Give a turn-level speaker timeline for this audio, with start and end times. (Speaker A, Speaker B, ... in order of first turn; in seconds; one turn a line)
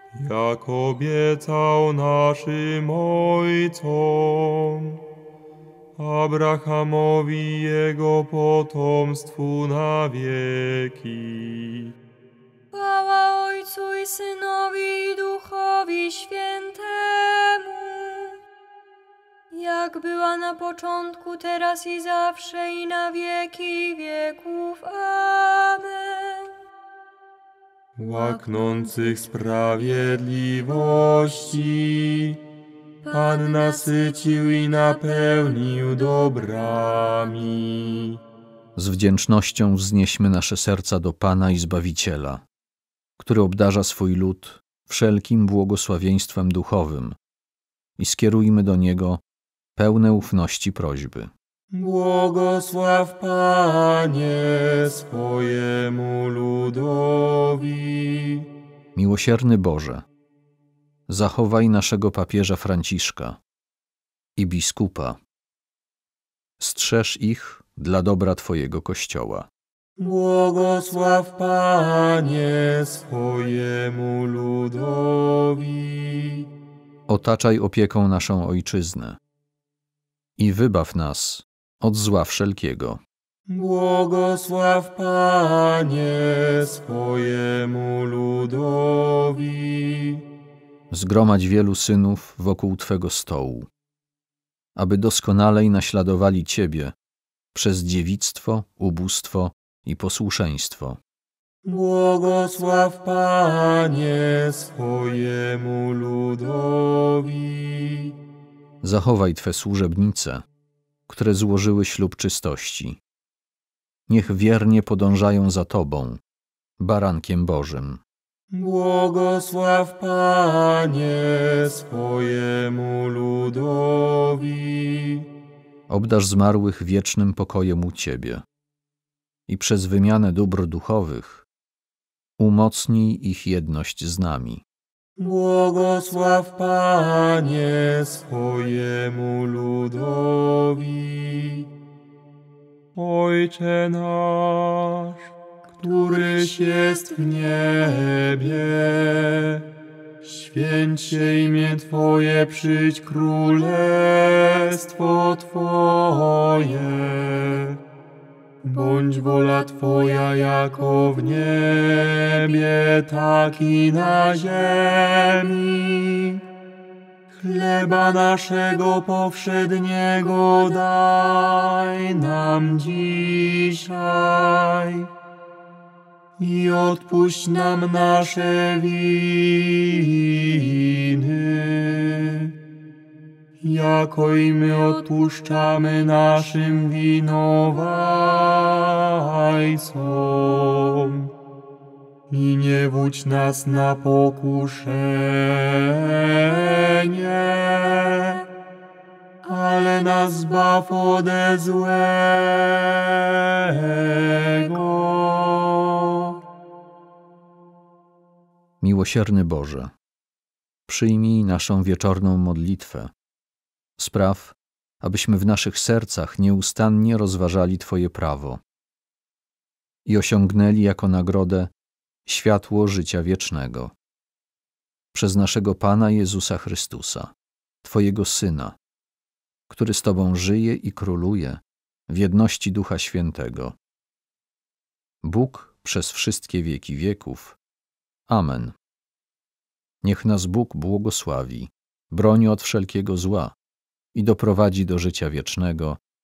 Speaker A: 0.1-5.0
Speaker A: 6.0-11.9
Speaker B: 12.7-18.4
Speaker B: 19.5-26.6
Speaker A: 28.0-32.4
Speaker B: 28.2-29.2
Speaker B: 33.0-35.4
Speaker A: 33.1-38.2
Speaker C: 38.8-42.4
Speaker C: 43.2-47.2
Speaker C: 48.0-49.2
Speaker C: 49.8-51.3
Speaker A: 51.7-58.5
Speaker C: 59.0-60.0
Speaker C: 61.1-63.4
Speaker C: 64.4-65.2
Speaker C: 66.6-69.5
Speaker A: 70.0-76.5
Speaker C: 77.1-79.2
Speaker C: 80.4-83.0
Speaker A: 83.5-90.2
Speaker C: 90.9-93.7
Speaker C: 94.8-97.0
Speaker C: 97.5-101.0
Speaker A: 101.7-108.2
Speaker C: 108.8-110.5
Speaker C: 111.1-113.0
Speaker C: 114.1-116.2
Speaker C: 116.8-118.0
Speaker A: 118.5-125.3
Speaker C: 125.9-128.4
Speaker C: 129.5-131.5
Speaker C: 132.4-134.6
Speaker A: 135.2-141.7
Speaker A: 142.9-145.2
Speaker A: 145.8-149.6
Speaker B: 146.1-147.4
Speaker A: 150.2-157.8
Speaker A: 158.6-166.4
Speaker A: 167.3-175.1
Speaker A: 176.4-182.5
Speaker A: 183.6-191.3
Speaker A: 192.3-198.4
Speaker A: 199.4-206.3
Speaker C: 208.8-209.9
Speaker C: 210.9-213.1
Speaker C: 214.0-218.6
Speaker C: 220.1-221.7
Speaker C: 222.3-223.9
Speaker C: 225.1-227.3
Speaker C: 227.8-228.8
Speaker C: 229.7-233.8
Speaker C: 235.2-237.6
Speaker C: 238.3-238.8
Speaker C: 240.0-243.6
Speaker C: 244.1-246.0